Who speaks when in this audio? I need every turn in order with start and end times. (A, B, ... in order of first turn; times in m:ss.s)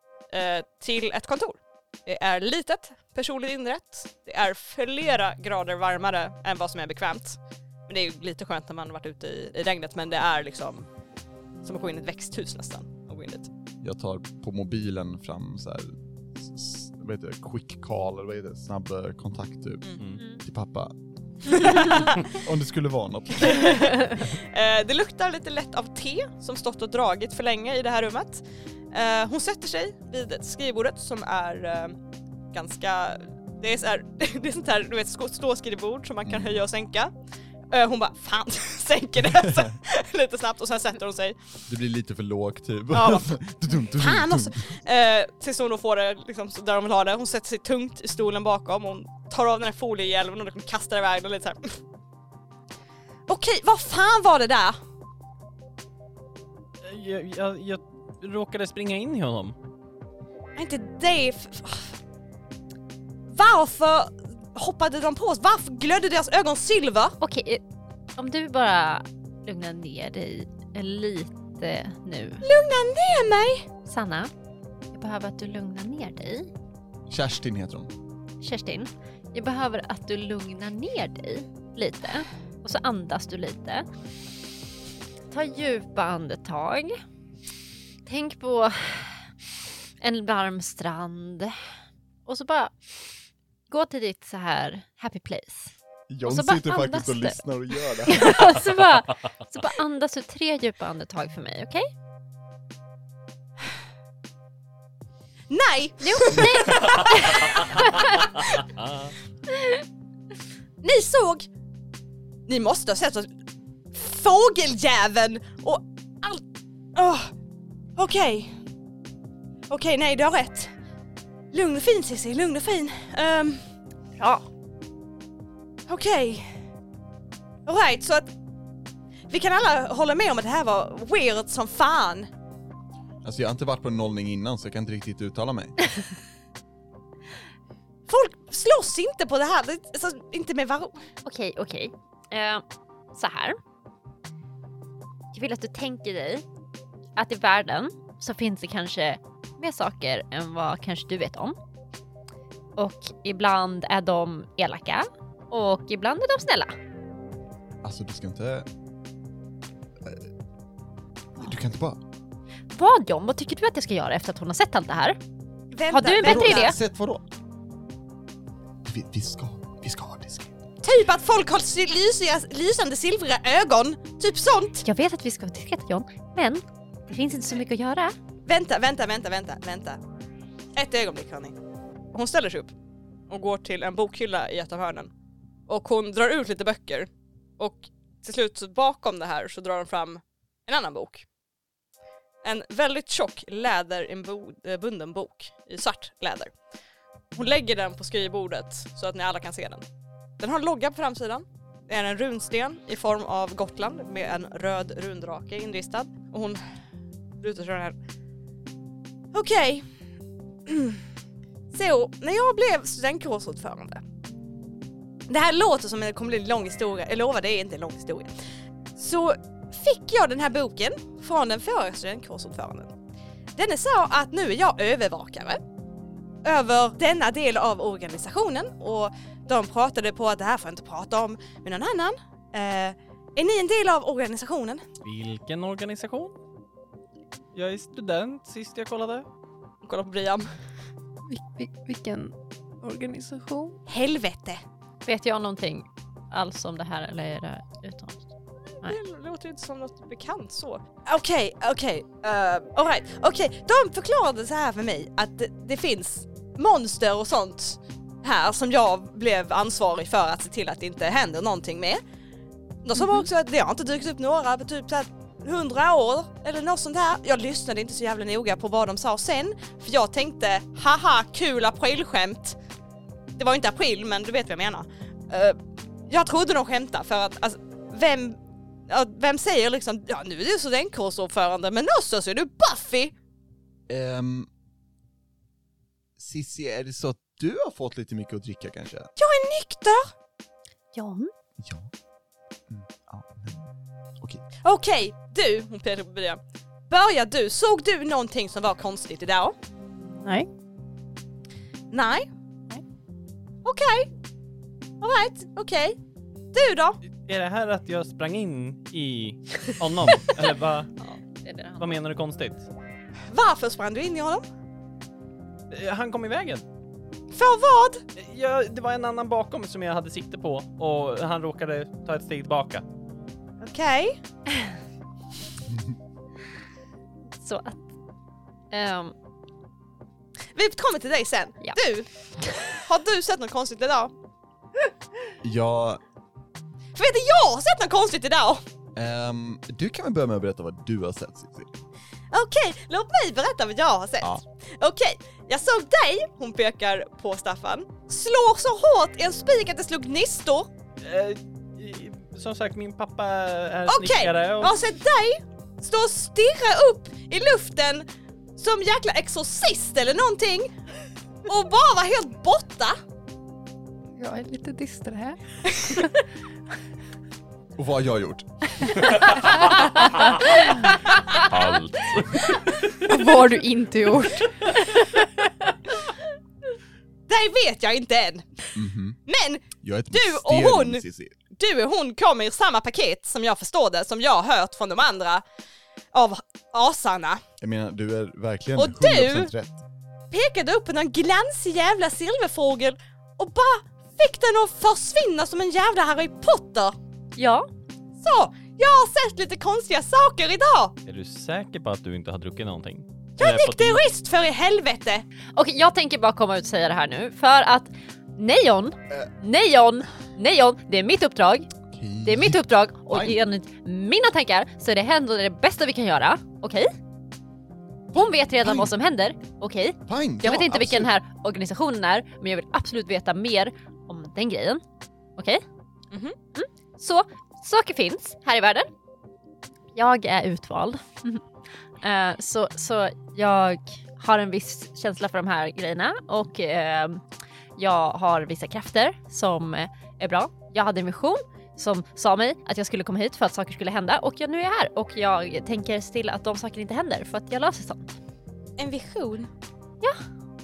0:00.3-0:10.9 A
0:11.6-0:13.5 A
0:13.8-0:23.7 B
0:20.0-0:20.2 C
0:20.1-0:20.4 D
0:21.5-0:22.2 A
0:23.4-0:32.0 A
0:32.5-0:37.1 A
0:36.2-0:36.6 B
0:37.7-0:41.6 A
0:39.4-0:39.7 B
0:41.7-0:44.6 B
0:42.9-0:51.8 A
0:53.3-0:54.8 A
0:56.8-0:59.6 C
1:00.6-1:01.9 A
1:03.3-1:07.2 A
1:07.2-1:07.6 D
1:08.2-1:12.4 D
1:12.4-1:13.7 A
1:13.8-1:14.3 D
1:14.9-1:16.5 D
1:17.1-1:17.9 B
1:18.4-1:23.8 D
1:25.3-1:27.0 D
1:28.0-1:29.2 D
1:30.0-1:31.5 D
1:32.2-1:33.0 D
1:33.7-1:35.7 D
1:36.1-1:38.5 B
1:36.2-1:37.4 D
1:38.0-1:41.9 D
1:45.5-1:47.8 A
1:46.0-1:48.3 D
1:48.5-1:49.1 C
1:49.5-1:49.8 D
1:50.8-1:51.5 A
1:52.5-1:53.3 A
1:53.9-1:56.4 A
1:56.9-1:57.3 A
1:58.0-1:58.5 A
1:59.7-2:00.7 A
2:01.5-2:03.6 A
2:04.2-2:04.4 D
2:05.9-2:06.6 A
2:07.6-2:08.3 A
2:09.3-2:12.3 A
2:13.2-2:15.8 B
2:18.1-2:21.0 A
2:21.2-2:22.6 D
2:23.1-2:23.6 D
2:25.3-2:26.4 D
2:27.2-2:31.6 D
2:32.8-2:36.7 D
2:37.8-2:38.7 B
2:41.4-2:42.0 B
2:42.7-2:45.2 D
2:45.7-2:46.7 A
2:45.9-2:46.8 D
2:46.2-2:47.2 B
2:48.8-2:50.5 B
2:50.8-2:54.8 A
2:54.8-2:58.2 D
2:58.4-3:00.0 A
3:00.7-3:01.6 A
3:02.1-3:02.7 A
3:03.3-3:05.1 A
3:05.7-3:11.2 A
3:12.4-3:16.5 A
3:17.3-3:19.8 A
3:20.4-3:26.6 A
3:27.4-3:27.9 A
3:29.3-3:29.8 A
3:30.7-3:31.0 A
3:31.7-3:34.0 A
3:35.3-3:38.3 A
3:39.0-3:42.9 A
3:43.6-3:45.6 A
3:46.4-3:54.8 A
3:55.0-3:56.3 C
3:57.5-3:59.2 C
3:59.8-4:00.5 A
4:01.3-4:03.8 E
4:03.9-4:04.6 A
4:05.0-4:08.2 D
4:08.8-4:22.0 A
4:22.8-4:32.6 A
4:33.4-4:35.6 A
4:36.1-4:43.1 A
4:43.9-4:44.5 B
4:46.2-4:49.1 B
4:49.2-4:50.1 A
4:50.9-4:51.3 D
4:51.6-4:51.9 B
4:52.7-4:53.7 B
4:54.6-4:59.6 A
5:00.2-5:00.5 E
5:01.9-5:02.3 A
5:03.6-5:04.1 A
5:05.0-5:06.0 A
5:06.5-5:07.0 A
5:07.1-5:10.9 C
5:11.4-5:11.9 D
5:11.8-5:12.7 C
5:13.3-5:14.4 A
5:15.7-5:16.6 C
5:17.3-5:18.0 A
5:18.2-5:22.8 C
5:23.6-5:24.2 A
5:27.4-5:27.8 D
5:28.7-5:29.1 D
5:30.5-5:32.1 A
5:32.4-5:32.7 D
5:32.7-5:34.1 A
5:35.4-5:36.0 B
5:36.9-5:38.6 A
5:38.9-5:41.7 B
5:42.3-5:50.7 A
5:51.0-5:54.7 C
5:53.9-5:58.0 A
5:58.6-6:00.7 A
6:01.4-6:02.9 A
6:04.2-6:05.4 E
6:05.7-6:06.0 A
6:07.8-6:09.2 B
6:09.0-6:10.6 C
6:11.3-6:13.1 C
6:13.0-6:14.8 E
6:17.3-6:18.7 A
6:18.7-6:19.2 B
6:19.2-6:21.0 A
6:19.8-6:21.4 B
6:21.5-6:25.4 A
6:26.1-6:27.4 A
6:27.6-6:29.8 B
6:28.8-6:29.5 A
6:30.3-6:36.9 A
6:37.4-6:37.7 D
6:38.2-6:40.9 A
6:41.0-6:44.0 C
6:43.4-6:45.2 A
6:45.6-6:51.7 D
6:51.9-6:53.4 B
6:52.2-6:56.9 D
6:58.1-7:04.8 D
6:58.1-6:58.9 B
7:00.1-7:01.1 B
7:05.4-7:05.6 D
7:06.1-7:06.4 A
7:06.5-7:08.9 D
7:09.9-7:11.4 D
7:12.0-7:17.2 D
7:17.8-7:28.2 D
7:28.8-7:29.5 A